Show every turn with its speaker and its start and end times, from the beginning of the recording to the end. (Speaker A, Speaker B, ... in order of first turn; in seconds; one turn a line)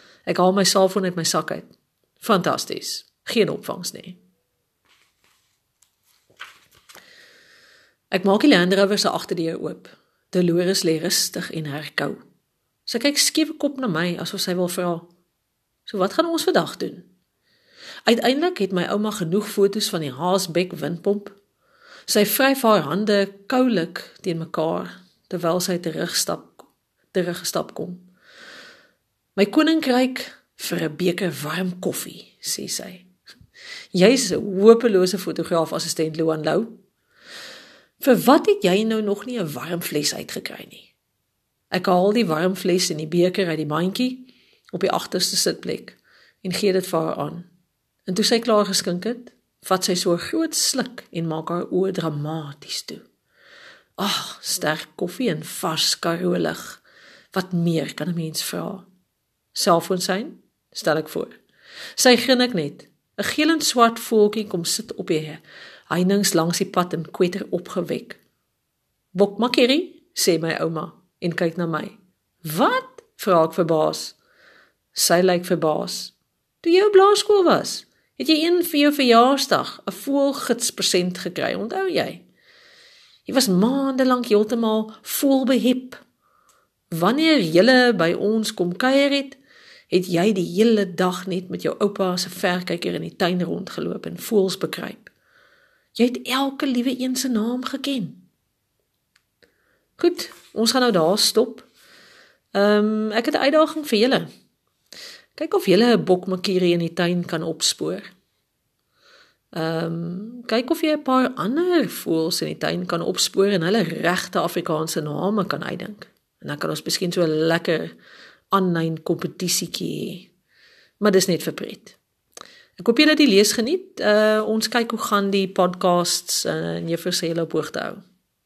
Speaker A: 0.2-4.2
Speaker A: 8.1-12.2
Speaker A: 12.8-15.1
Speaker A: 15.8-17.1
Speaker A: 18.1-21.4
Speaker A: 22.1-26.6
Speaker A: 27.1-28.1
Speaker A: 29.4-33.1
Speaker A: 33.9-36.8
Speaker A: 38.0-40.9
Speaker A: 41.7-47.5
Speaker A: 48.1-53.0
Speaker A: 54.0-56.8
Speaker A: 57.3-58.9
Speaker A: 59.5-61.4
Speaker A: 62.0-68.2
Speaker A: 69.1-74.2
Speaker A: 74.9-82.2
Speaker A: 83.2-86.0
Speaker A: 86.9-89.4
Speaker A: 89.9-95.1
Speaker A: 95.9-98.2
Speaker A: 100.0-101.7
Speaker A: 102.5-104.3
Speaker A: 105.3-108.1
Speaker A: 109.5-117.9
Speaker A: 118.5-120.3
Speaker A: 121.0-122.0
Speaker A: 122.8-128.0